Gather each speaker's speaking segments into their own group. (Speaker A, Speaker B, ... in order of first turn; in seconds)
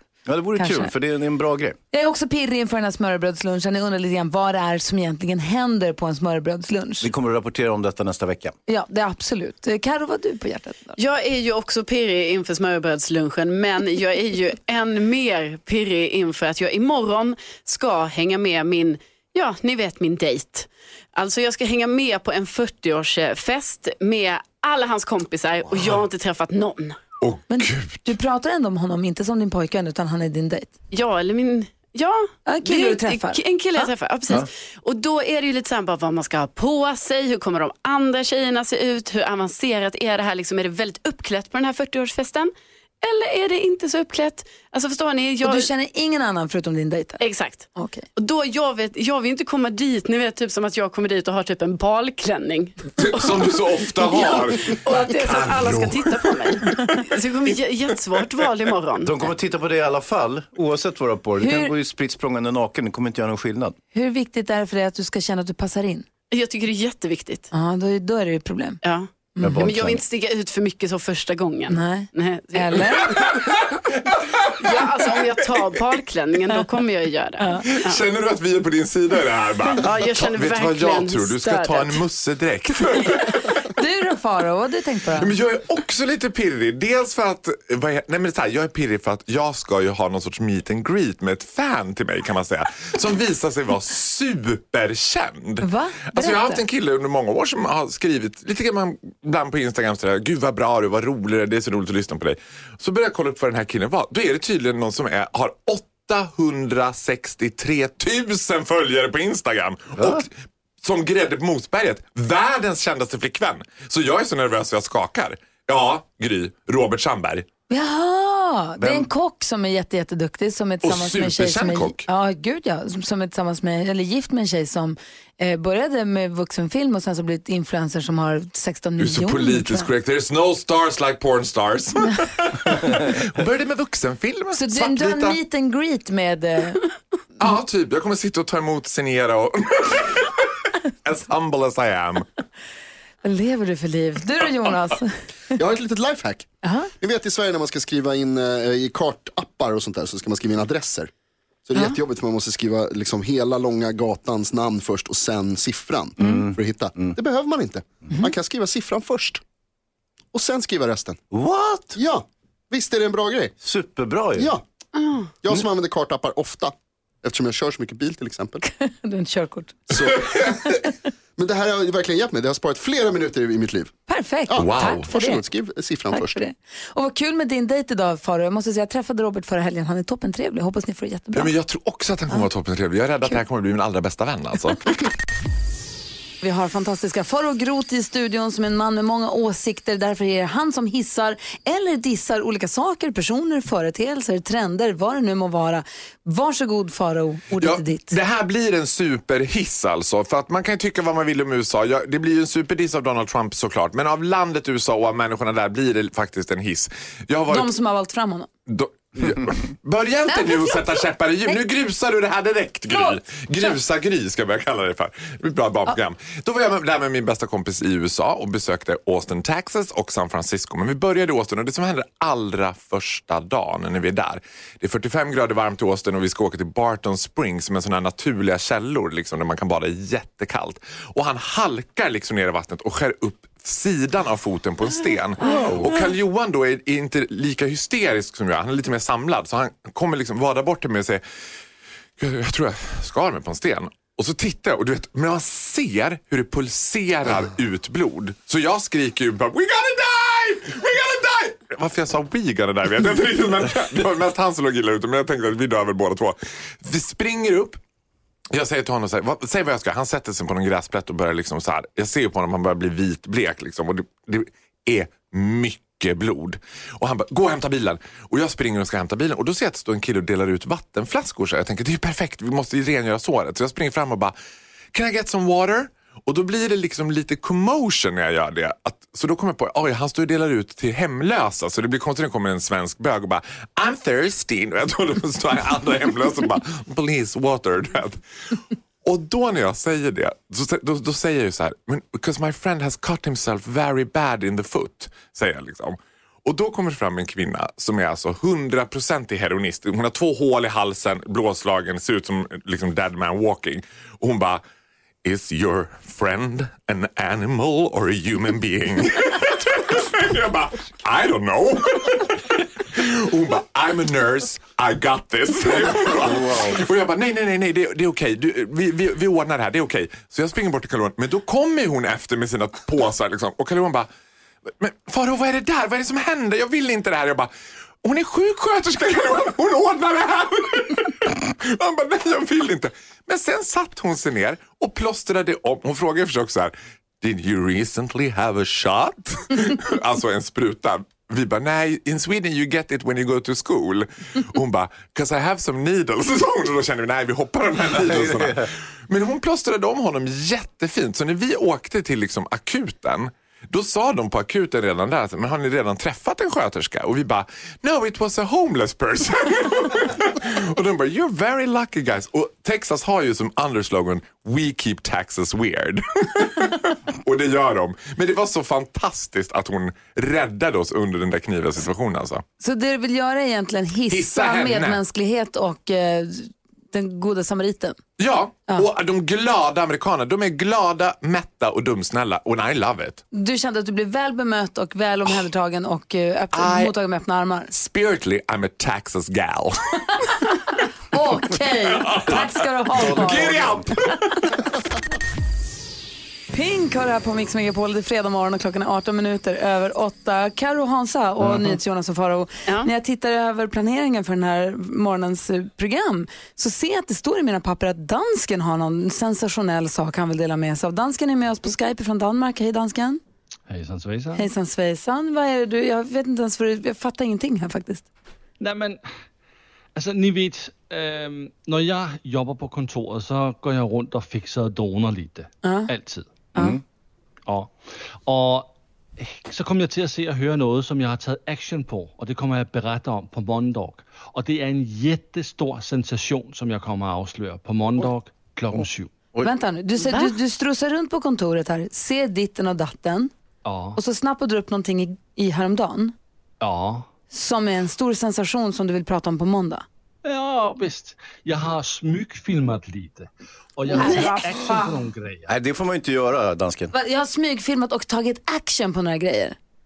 Speaker A: 0.2-1.8, 7.0-8.5, 59.0-63.8, 69.4-70.0, 110.0-110.2, 118.8-119.1, 156.2-157.2, 161.3-162.0, 163.6-164.5, 315.9-316.8, 347.9-348.7, 392.9-393.9, 401.4-401.8, 426.6-426.8, 438.7-439.5, 455.5-456.9
Speaker B: 0.6-0.9, 1.9-7.1, 8.7-11.0, 27.5-30.7, 32.5-33.9, 45.4-48.0, 61.4-61.7, 63.9-66.1, 67.5-68.8, 69.3-69.7, 71.7-73.2, 83.7-85.3, 95.6-96.6, 117.7-129.9, 134.5-136.8, 143.2-145.2, 146.6-146.9, 168.6-169.9, 174.1-175.4, 176.1-181.5, 186.4-198.1, 207.5-208.5, 210.3-210.8, 372.6-378.0, 383.3-387.7, 391.1-393.6, 396.5-413.2, 414.4-418.1, 425.6-425.9, 439.4-443.3, 443.9-446.1, 447.3-449.8, 453.9-455.0, 456.9-459.6
Speaker C: 11.0-27.0, 30.9-45.7, 47.2-59.3, 66.3-67.5, 68.8-73.0, 74.6-78.0, 79.7-82.0, 164.9-165.3, 440.0-440.3
Speaker D: 27.2-28.0, 53.0-57.0, 73.0-75.3, 77.6-83.7, 85.2-117.5, 120.8-122.1, 129.0-135.4, 137.4-140.5, 141.0-142.2, 174.6-175.1, 181.3-185.0, 197.6-207.7, 208.7-241.2, 242.2-257.8, 258.5-274.3, 274.9-288.2, 289.0-304.6, 305.2-324.1, 324.7-327.5, 328.0-372.4, 374.1-375.0, 378.2-383.2, 386.5-386.9, 387.7-390.4, 391.9-394.6
Speaker E: 145.5-151.1, 151.7-159.4, 160.3-161.2, 161.9-163.5, 164.3-164.6, 165.4-168.6, 169.9-170.8, 171.4-173.9, 174.5-176.4
Speaker F: 413.7-414.5, 418.6-419.0, 419.9-426.5, 427.4-439.1, 443.6-444.0, 446.6-447.1, 450.2-455.5